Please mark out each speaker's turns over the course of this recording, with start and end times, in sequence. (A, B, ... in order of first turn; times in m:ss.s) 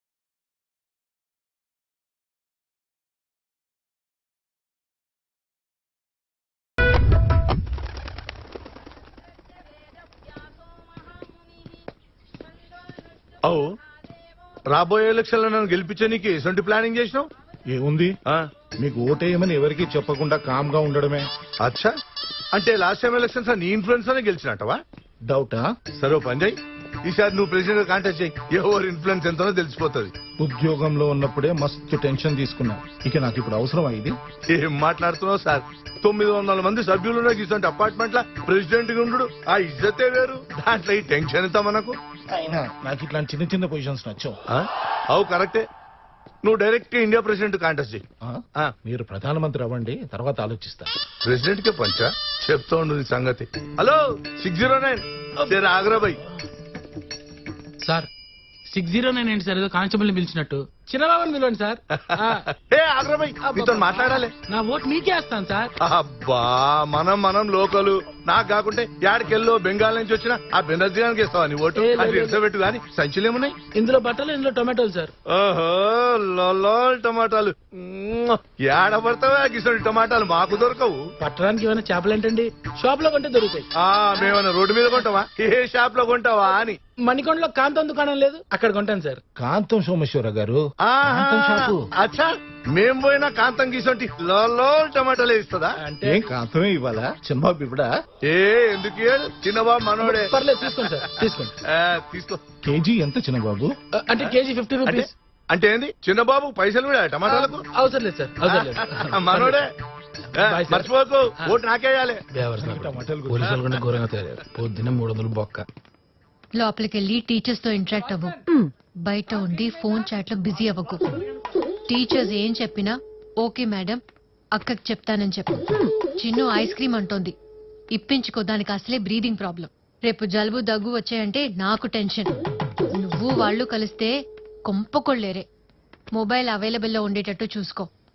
0:14.7-0:17.3 A
0:17.7-0:18.1 B
0:18.8-0:21.2 B
0:21.6-0:21.9 A
0:22.5-0:24.8 A
0:25.3-0:25.6 B
0:26.0-0:26.6 A
0:27.1-0:30.1 A
0:30.4-0:34.1 B
0:34.5-0:41.9 A
0:42.3-0:44.4 B
0:44.5-0:45.6 A
0:46.4-0:48.0 A
0:48.3-0:50.9 B
0:51.2-0:56.2 A
0:57.8-0:58.1 C
0:58.7-1:02.4 C
1:01.9-1:04.3 A
1:03.4-1:05.7 C
1:05.8-1:13.6 A
1:11.8-1:12.4 C
1:13.7-1:15.1 C
1:15.3-1:21.0 A
1:21.2-1:23.7 C
1:23.8-1:26.8 A
1:27.0-1:29.2 C
1:29.4-1:31.8 B
1:30.8-1:35.8 A
1:35.8-1:36.3 C
1:36.0-1:37.9 B
1:38.3-1:40.4 A
1:40.0-1:41.5 C
1:41.6-1:42.4 A
1:42.6-1:43.7 B
1:43.9-1:45.1 C
1:44.2-1:47.6 A
1:47.2-1:49.6 C
1:48.4-1:49.7 A
1:50.3-1:52.2 A
1:50.4-1:51.6 C
1:52.3-1:55.6 C
1:52.6-1:53.7 B
1:56.6-1:58.4 D
1:59.0-2:01.0 D
2:01.9-2:04.0 D
2:04.6-2:07.3 D
2:08.0-2:12.3 D
2:13.0-2:14.1 D
2:14.7-2:15.4 D
2:16.2-2:17.9 D